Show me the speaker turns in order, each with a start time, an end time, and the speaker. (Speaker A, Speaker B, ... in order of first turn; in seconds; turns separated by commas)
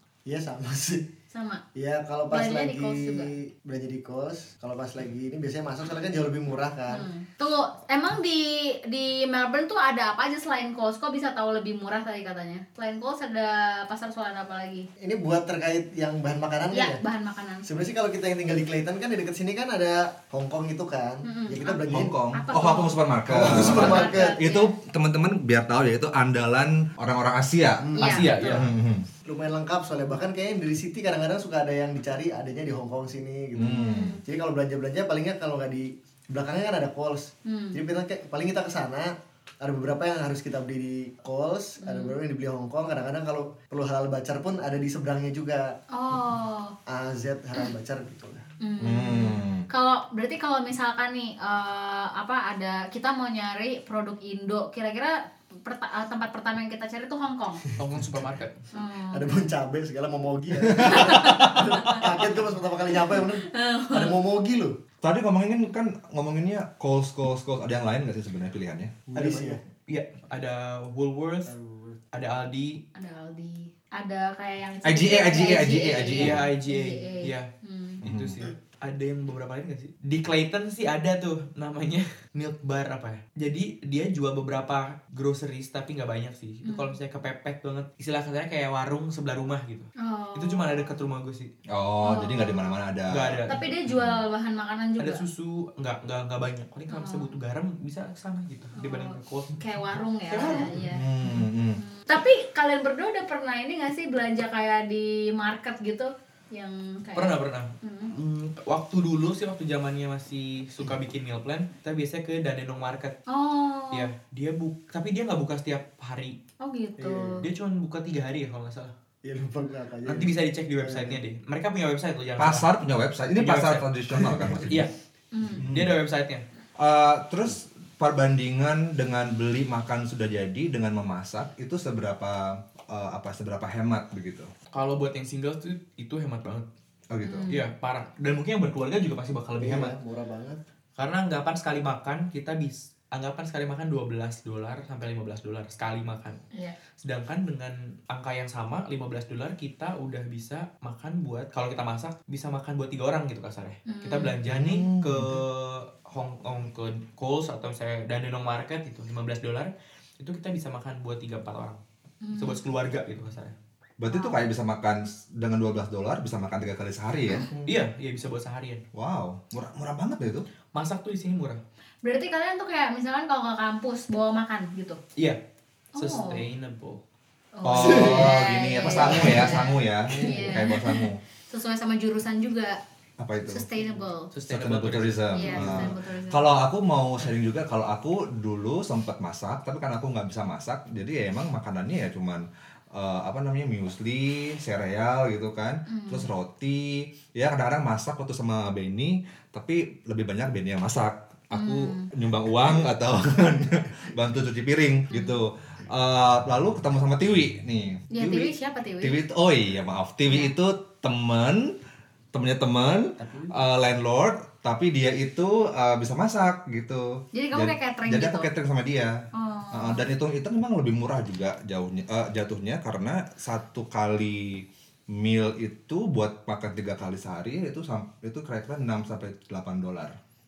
Speaker A: 0.2-1.1, Speaker B: 1.3-1.6, Speaker A: 1.7-7.1, Speaker B: 2.3-3.3, Speaker B: 6.9-14.9, Speaker A: 15.0-17.0, Speaker B: 16.7-17.7, Speaker A: 17.6-22.1, Speaker B: 21.2-21.8, Speaker C: 21.8-29.1, Speaker B: 22.3-24.8, Speaker A: 23.3-24.4, Speaker A: 27.8-28.3, Speaker D: 27.9-28.7, Speaker B: 28.0-28.7, Speaker A: 29.2-45.8, Speaker C: 33.5-34.2, Speaker B: 33.6-34.2, Speaker B: 37.5-37.8, Speaker B: 41.8-42.2, Speaker B: 45.9-46.8, Speaker A: 46.9-48.5, Speaker B: 48.6-57.6, Speaker C: 48.8-49.6, Speaker D: 57.8-58.6, Speaker A: 58.0-58.3, Speaker B: 58.7-59.3, Speaker A: 59.1-64.8, Speaker C: 60.7-61.6, Speaker B: 60.8-62.1, Speaker B: 63.4-64.2, Speaker C: 65.0-68.9, Speaker A: 69.1-69.6, Speaker D: 69.2-71.5, Speaker A: 71.5-72.0, Speaker D: 72.1-72.8, Speaker B: 73.0-78.0, Speaker C: 74.8-76.4, Speaker D: 76.2-77.5, Speaker D: 78.0-91.5, Speaker C: 78.0-78.5, Speaker B: 86.7-87.0, Speaker B: 90.0-91.1, Speaker C: 91.7-94.2, Speaker B: 92.0-92.8, Speaker D: 93.1-93.6, Speaker B: 93.5-95.2, Speaker D: 95.0-99.6, Speaker B: 96.9-97.4, Speaker B: 98.8-101.0, Speaker D: 100.3-100.8, Speaker C: 100.5-101.8, Speaker B: 101.8-108.1, Speaker D: 107.2-113.2, Speaker B: 113.3-114.1, Speaker D: 113.9-116.4, Speaker B: 116.6-117.5, Speaker A: 117.0-117.4, Speaker D: 117.4-118.9, Speaker A: 119.2-121.2, Speaker D: 120.0-122.7, Speaker C: 122.4-124.9, Speaker D: 123.4-124.9, Speaker B: 125.3-125.6, Speaker D: 125.6-126.4, Speaker C: 125.6-126.0, Speaker C: 126.8-134.5, Speaker D: 134.7-136.7, Speaker C: 137.1-137.5, Speaker B: 137.2-137.6, Speaker D: 137.5-139.9, Speaker A: 139.6-140.6, Speaker D: 141.0-146.4, Speaker D: 147.0-161.8, Speaker B: 153.9-154.3, Speaker C: 154.5-155.4, Speaker B: 162.2-162.6, Speaker D: 162.3-163.6, Speaker C: 164.0-167.5, Speaker B: 164.1-164.4, Speaker A: 167.5-167.8, Speaker D: 167.7-168.8, Speaker C: 168.9-170.5, Speaker D: 170.7-171.6, Speaker B: 172.0-175.0, Speaker B: 175.9-176.4, Speaker D: 176.0-177.0, Speaker B: 177.6-182.8, Speaker C: 177.6-181.2, Speaker A: 178.0-178.3, Speaker A: 178.9-179.6, Speaker A: 180.1-180.6, Speaker C: 183.2-183.6, Speaker B: 183.4-184.3, Speaker D: 184.3-185.9, Speaker C: 184.5-211.8, Speaker B: 185.3-186.5, Speaker B: 195.9-196.3, Speaker B: 201.5-202.1, Speaker B: 205.1-205.4, Speaker B: 208.1-209.2, Speaker C: 212.3-219.2, Speaker A: 213.2-213.6, Speaker B: 217.3-218.5, Speaker B: 219.3-220.1, Speaker C: 219.7-230.2